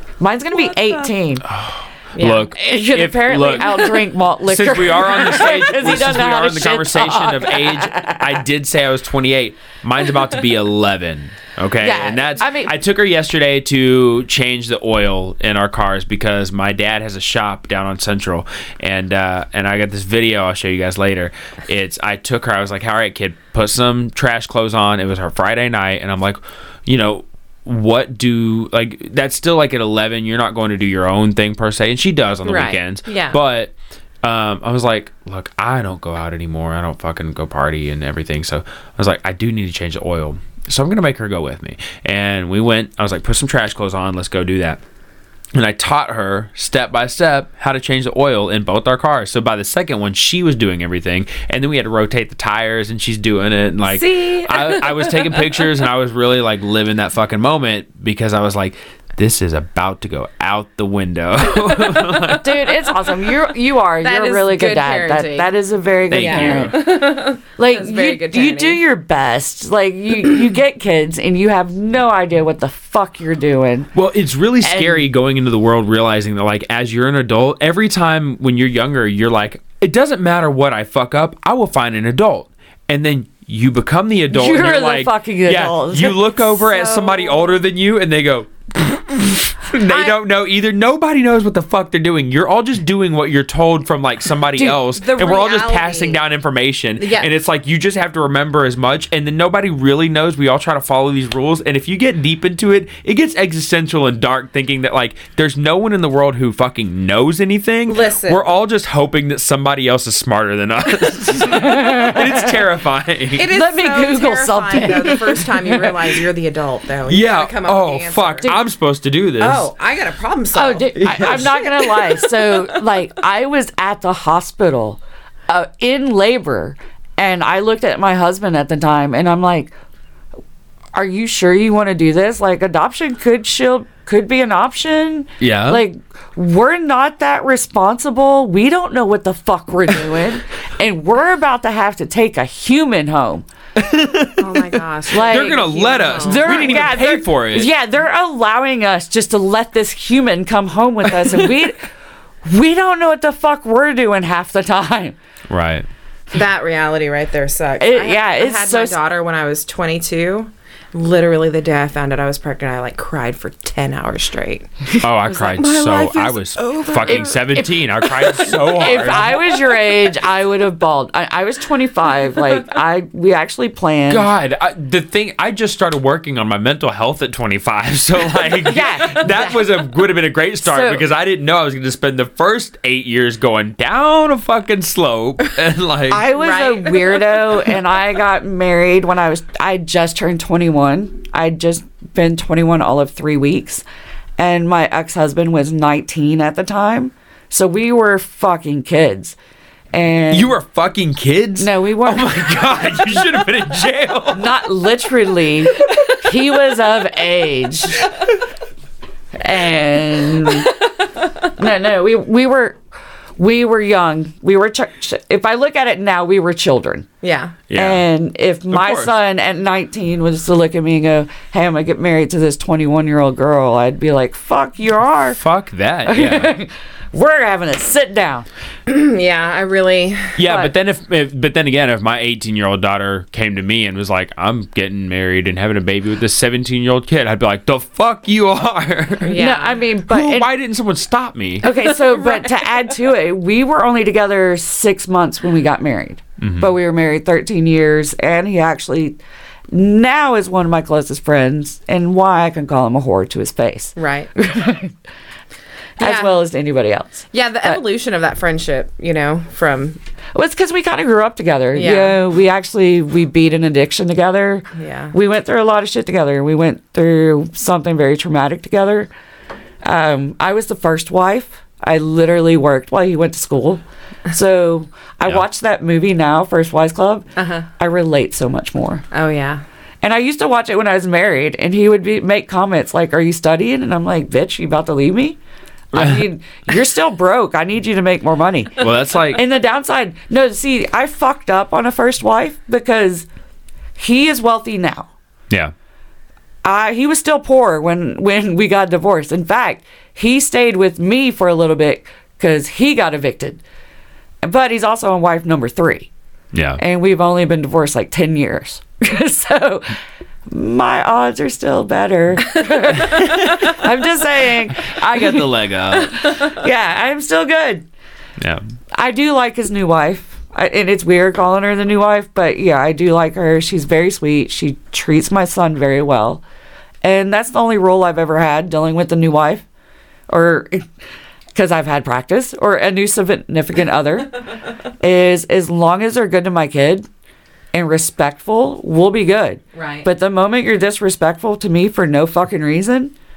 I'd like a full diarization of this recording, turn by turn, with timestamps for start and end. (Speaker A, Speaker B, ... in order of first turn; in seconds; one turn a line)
Speaker A: 0.2-1.4
Speaker B: 1.4-3.8
Speaker C: 2.1-2.5
Speaker A: 2.5-8.4
Speaker B: 4.5-44.8
Speaker A: 11.8-12.7
Speaker C: 32.5-33.4
Speaker B: 45.5-62.7
Speaker C: 53.9-55.7
Speaker A: 62.4-67.0
Speaker C: 64.0-65.5
Speaker B: 66.1-66.8
Speaker C: 66.1-68.8
Speaker A: 67.6-73.9
Speaker B: 73.9-113.5
Speaker A: 74.6-75.1
Speaker A: 84.3-86.4
Speaker C: 86.6-87.6
Speaker C: 89.8-90.2
Speaker A: 94.5-94.8
Speaker C: 94.9-96.2
Speaker C: 97.0-97.3
Speaker C: 107.9-108.4
Speaker A: 111.4-112.5
Speaker C: 113.3-118.5
Speaker A: 113.5-116.0
Speaker B: 117.1-119.7
Speaker C: 119.4-122.5
Speaker A: 120.5-129.7
Speaker B: 120.9-121.8
Speaker A: 130.9-143.4
Speaker B: 135.4-135.8
Speaker B: 143.8-147.7
Speaker C: 144.4-146.9
Speaker A: 145.1-145.6
Speaker A: 146.2-151.9
Speaker A: 152.5-155.2
Speaker B: 155.5-155.9
Speaker C: 156.3-164.7
Speaker A: 157.8-158.9
Speaker B: 165.0-169.4
Speaker C: 165.3-167.7
Speaker A: 167.0-174.3
Speaker B: 174.1-186.2
Speaker A: 178.6-179.9
Speaker A: 180.6-181.1
Speaker A: 186.1-193.8
Speaker C: 186.3-187.6
Speaker A: 194.4-199.4
Speaker A: 199.9-200.6
Speaker B: 200.3-204.5
Speaker A: 201.6-203.2
Speaker A: 204.3-208.0
Speaker A: 209.3-210.8
Speaker A: 211.6-212.8
Speaker A: 213.4-217.1
Speaker C: 217.2-217.6
Speaker B: 217.7-218.0
Speaker A: 217.7-225.4
Speaker B: 218.7-219.1
Speaker B: 225.4-226.5
Speaker A: 226.1-228.5
Speaker C: 228.9-230.7
Speaker B: 230.3-239.4
Speaker C: 239.2-239.8
Speaker A: 239.3-240.5
Speaker B: 240.1-241.7
Speaker A: 241.6-249.2
Speaker C: 242.1-242.5
Speaker B: 246.4-246.7
Speaker A: 249.7-254.9
Speaker C: 253.9-254.3
Speaker A: 256.0-257.8
Speaker C: 256.0-256.4
Speaker C: 257.3-260.0
Speaker A: 260.3-269.1
Speaker C: 261.7-262.2
Speaker C: 264.8-265.1
Speaker A: 269.8-279.0
Speaker C: 277.4-277.7
Speaker C: 279.1-279.6
Speaker A: 280.0-285.4
Speaker A: 285.9-293.3
Speaker B: 285.9-286.3
Speaker B: 288.8-289.4
Speaker A: 294.0-295.1
Speaker A: 296.6-303.6
Speaker A: 304.4-306.1
Speaker B: 306.5-306.8
Speaker A: 306.8-309.9
Speaker A: 310.5-315.4
Speaker B: 313.1-313.8
Speaker B: 314.8-316.2
Speaker A: 316.1-317.9
Speaker A: 318.9-326.4
Speaker A: 327.0-329.6
Speaker A: 330.3-330.9
Speaker A: 331.5-334.4
Speaker A: 335.0-337.1
Speaker A: 337.7-343.1
Speaker C: 339.7-340.1